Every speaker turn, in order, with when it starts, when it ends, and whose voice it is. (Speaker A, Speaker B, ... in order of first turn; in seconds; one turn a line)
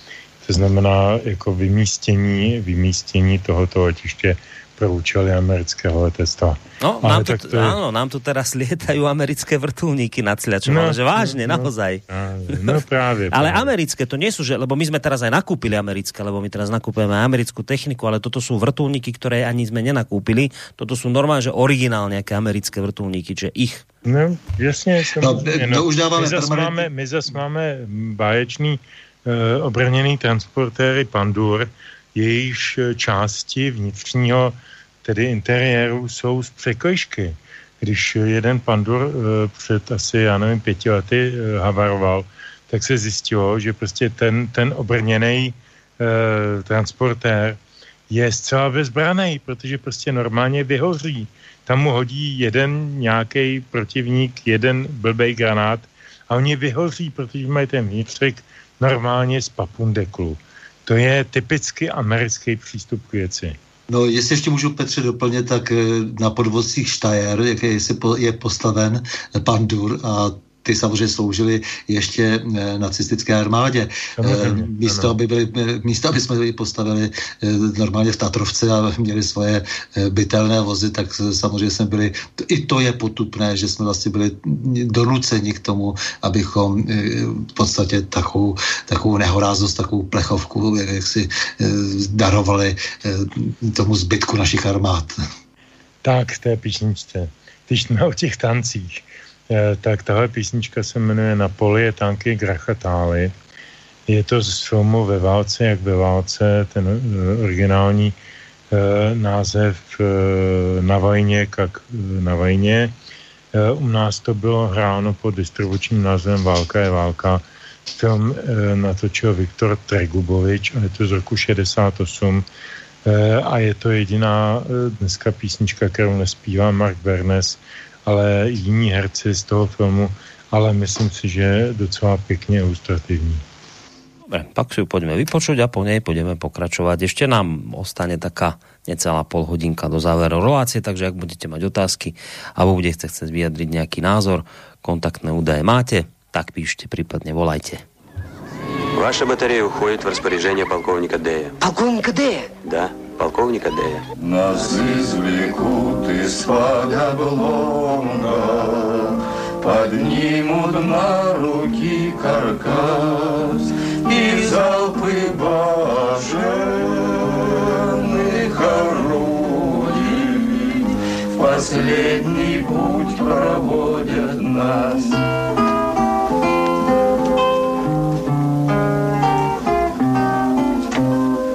Speaker A: 0.4-7.8
Speaker B: 6.8-12.8
Speaker A: 10.7-13.7
Speaker B: 13.3-23.8
Speaker A: 24.0-47.6
Speaker C: 25.2-26.9
Speaker A: 48.1-63.6
Speaker C: 63.9-95.2
Speaker A: 74.2-75.1
Speaker A: 96.0-103.3
Speaker A: 104.1-108.2
Speaker A: 108.7-112.9
Speaker A: 113.5-122.5
Speaker A: 123.0-133.4
Speaker B: 134.3-147.8
Speaker D: 148.9-154.1
Speaker E: 154.2-175.2